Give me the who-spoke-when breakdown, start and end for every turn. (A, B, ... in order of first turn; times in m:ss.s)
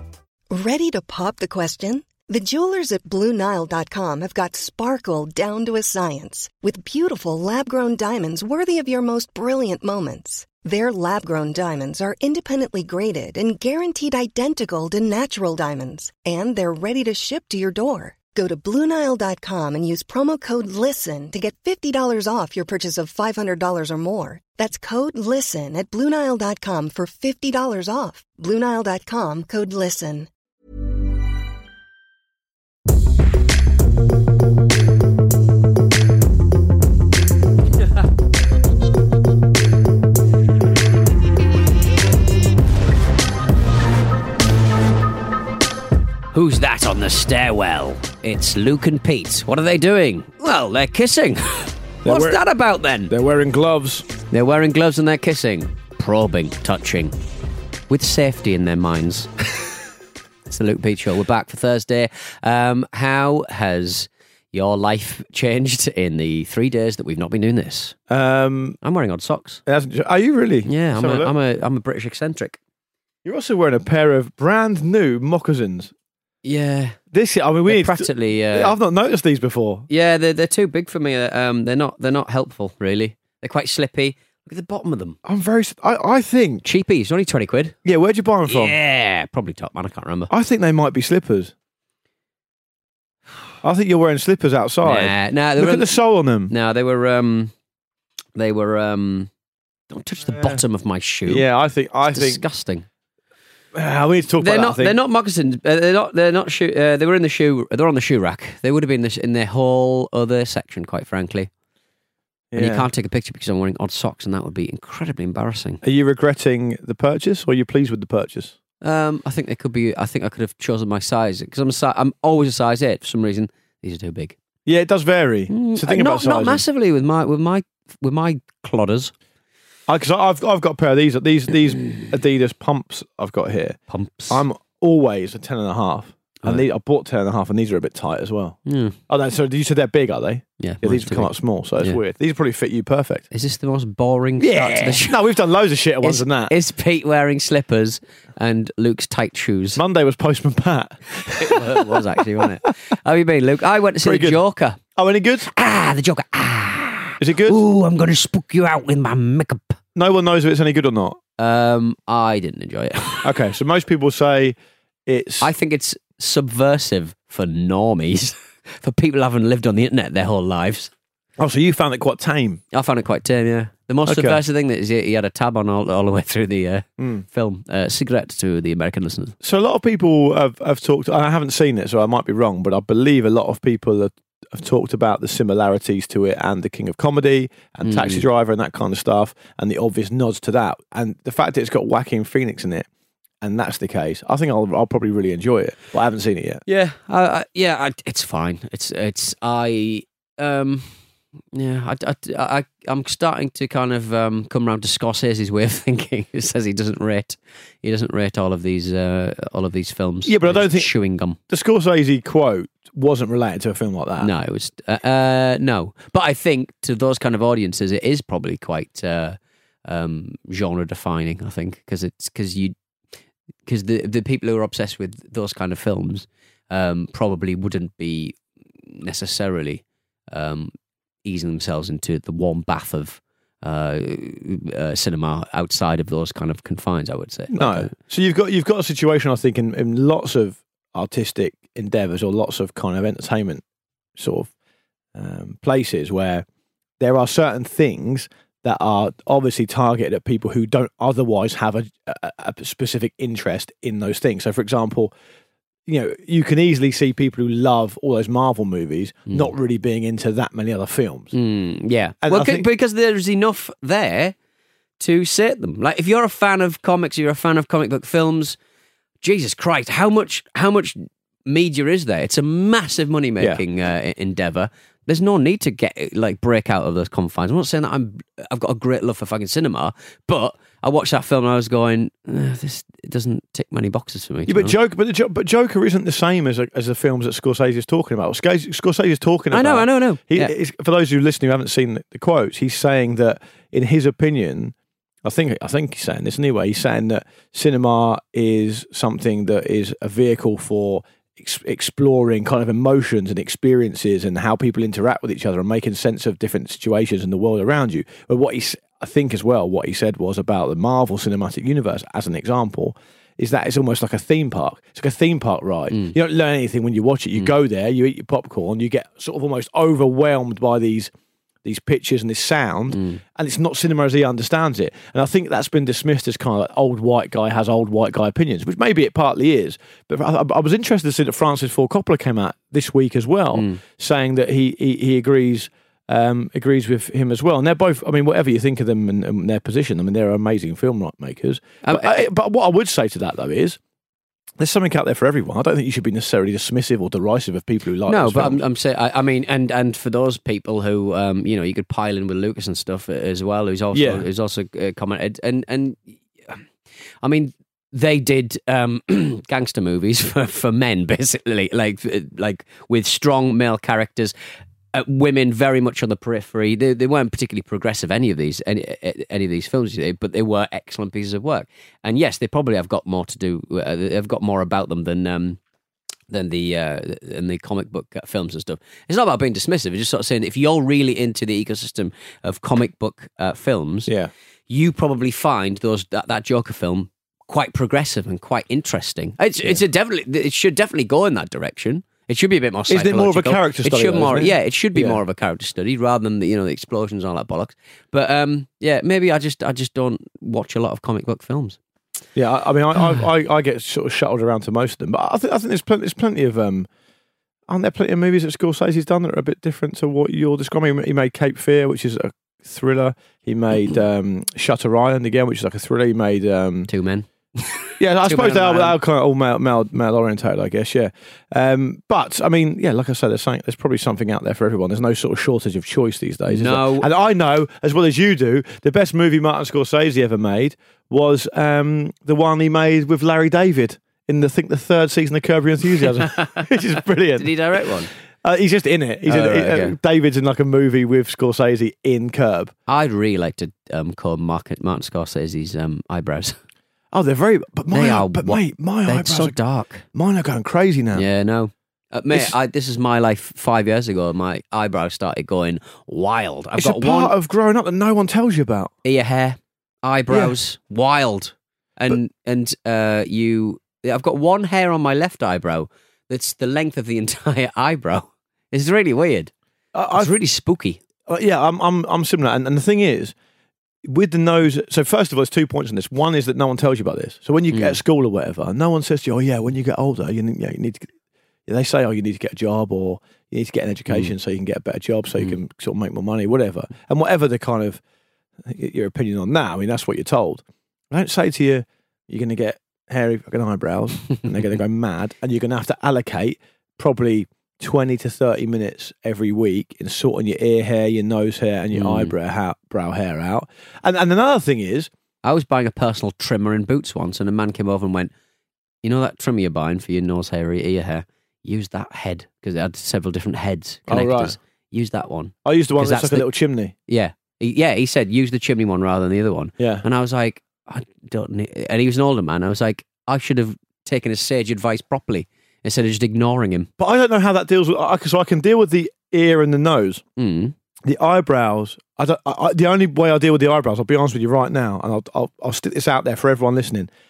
0:00.5-0:30.3 A
0:46.3-0:53.1 B
0:52.0-0:52.4 C
0:53.1-0:54.1 C
0:54.3-0:57.2 B
0:57.9-0:59.3 B
1:00.5-1:08.0 B
1:08.1-1:08.8 C
1:08.8-1:09.6 B
1:09.6-1:11.3 C
1:10.6-1:12.6 B
1:13.2-1:15.9 C
1:16.4-1:17.0 B
1:17.1-1:19.9 C
1:17.6-1:18.8 B
1:19.9-1:25.2 B
1:25.2-1:26.6 C
1:26.6-1:27.8 B
1:27.8-1:28.7 C
1:28.5-1:30.3 B
1:30.3-1:31.5 C
1:33.6-1:36.5 C
1:34.8-1:35.9 B
1:36.5-1:37.5 B
1:38.3-1:39.3 B
1:39.9-1:41.5 B
1:40.3-1:40.6 C
1:41.2-1:42.4 C
1:42.1-1:42.8 B
1:43.7-1:45.0 C
1:44.4-1:51.5 B
1:52.5-1:52.9 C
1:52.5-1:55.8 B
1:55.8-1:58.5 C
1:58.8-2:04.4 B
2:04.6-2:06.6 C
2:05.5-2:09.1 B
2:09.9-2:13.8 C
2:13.9-2:14.4 B
2:14.3-2:18.6 C
2:18.6-2:19.0 B
2:19.1-2:23.2 C
2:20.6-2:22.0 B
2:23.3-2:25.2 B
2:24.4-2:26.5 C
2:26.0-2:29.8 B
2:29.8-2:32.4 C
2:31.4-2:34.8 B
2:34.0-2:35.5 C
2:35.5-2:39.8 B
2:37.2-2:37.6 C
2:39.9-2:41.2 C
2:41.4-2:43.3 B
2:43.2-2:45.5 C
2:45.4-2:50.9 B
2:51.4-2:52.6 C
2:52.7-2:59.4 B
2:54.0-2:54.4 C
2:57.0-2:57.2 C
2:59.4-3:12.9 C
3:07.8-3:08.2 B
3:13.4-3:16.6 C
3:16.7-3:31.4 B
3:30.2-3:30.9 C
3:31.5-3:34.3 C
3:34.2-3:42.8 B
3:43.6-3:50.7 B
3:51.2-3:57.9 B
3:57.5-4:03.6 C
4:04.2-4:04.5 C
4:05.1-4:06.4 C
4:07.0-4:15.1 C
4:15.8-4:21.3 C
4:21.3-4:24.4 B
4:22.2-4:22.7 C
4:25.0-4:28.6 B
4:29.2-4:44.8 B
4:44.5-5:21.1 C
4:49.5-4:50.5 B
5:21.6-5:43.8 C
5:22.9-5:23.2 B
5:33.5-5:33.8 B
5:41.8-5:42.2 B
5:44.6-5:48.6 C
5:48.1-5:56.7 B
5:53.9-5:54.2 C
5:57.2-6:04.3 B
6:04.9-6:15.6 B
6:16.3-6:24.1 B
6:24.0-6:24.3 C
6:24.7-6:41.8 B
6:32.9-6:35.2 C
6:42.3-6:46.9 C
6:47.7-6:56.9 C
6:56.9-6:59.0 B
6:58.0-7:22.7 C
7:06.5-7:07.1 B
7:16.3-7:16.7 B
7:17.4-7:18.1 B
7:19.2-7:20.0 B
7:22.9-7:26.6 B
7:27.1-7:29.6 C
7:27.9-7:30.0 B
7:30.1-7:31.3 C
7:31.1-7:37.3 B
7:36.8-7:38.9 C
7:39.0-7:49.5 B
7:40.3-7:40.5 C
7:49.9-7:50.3 C
7:50.2-7:51.0 B
7:51.3-7:53.3 C
7:54.0-8:01.1 C
7:57.7-7:58.0 B
8:01.6-8:08.0 C
8:08.6-8:25.1 C
8:21.9-8:22.3 B
8:25.4-8:28.3 B
8:29.0-8:36.5 B
8:34.1-8:34.6 C
8:35.6-8:36.9 C
8:37.1-8:46.9 B
8:39.8-8:40.0 C
8:47.0-8:50.2 C
8:50.4-8:50.7 B
8:51.0-8:57.1 C